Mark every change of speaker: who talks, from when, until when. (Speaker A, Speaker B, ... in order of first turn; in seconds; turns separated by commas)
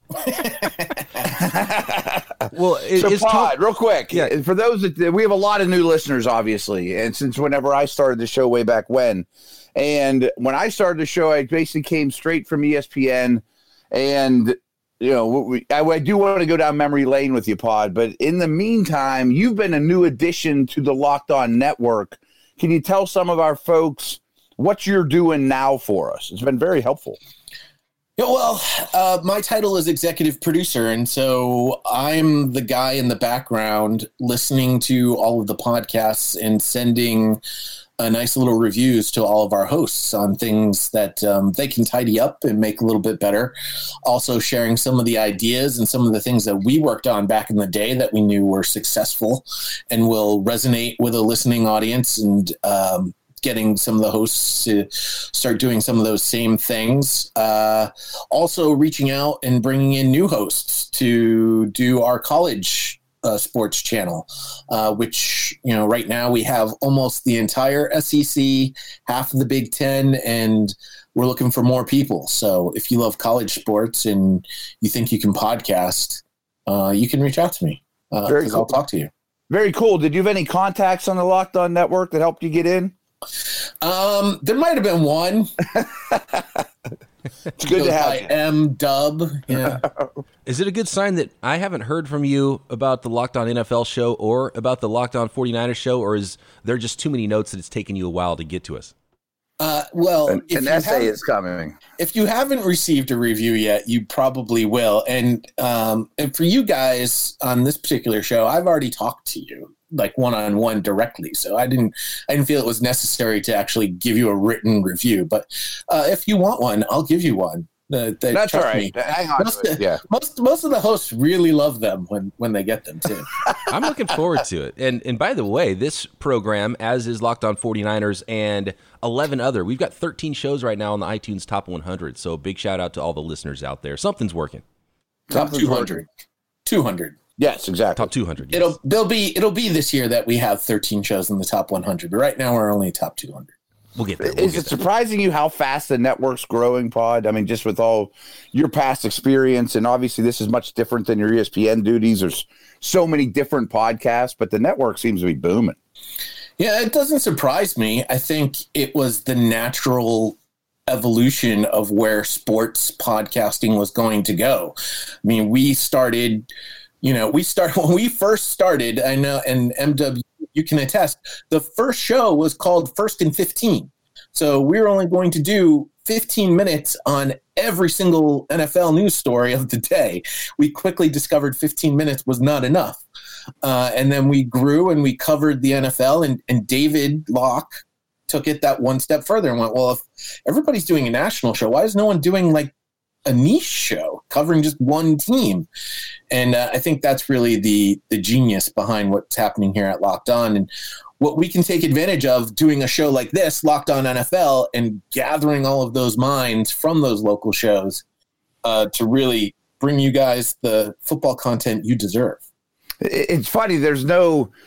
Speaker A: 0.2-1.1, Speaker B: 1.2-27.2, Speaker C: 2.5-3.5, Speaker A: 28.2-37.4, Speaker A: 38.0-43.5, Speaker A: 44.1-79.1, Speaker B: 78.3-78.8, Speaker B: 79.5-82.9, Speaker A: 83.8-85.5, Speaker B: 85.8-86.6, Speaker B: 87.6-88.3, Speaker A: 87.7-89.8, Speaker B: 89.7-90.1, Speaker C: 90.5-98.9, Speaker A: 99.6-101.2, Speaker B: 100.3-101.8, Speaker A: 102.0-123.3, Speaker B: 118.3-120.0, Speaker C: 123.7-134.6, Speaker B: 135.3-135.9, Speaker A: 135.3-136.1, Speaker A: 136.7-137.2, Speaker B: 137.4-138.1, Speaker C: 138.0-138.7, Speaker A: 138.5-143.5, Speaker C: 144.0-144.8, Speaker B: 144.2-155.8, Speaker A: 156.6-166.5, Speaker A: 167.0-183.0, Speaker A: 183.6-192.7, Speaker A: 193.3-195.7, Speaker A: 196.3-208.0, Speaker A: 208.6-212.4, Speaker B: 213.0-214.5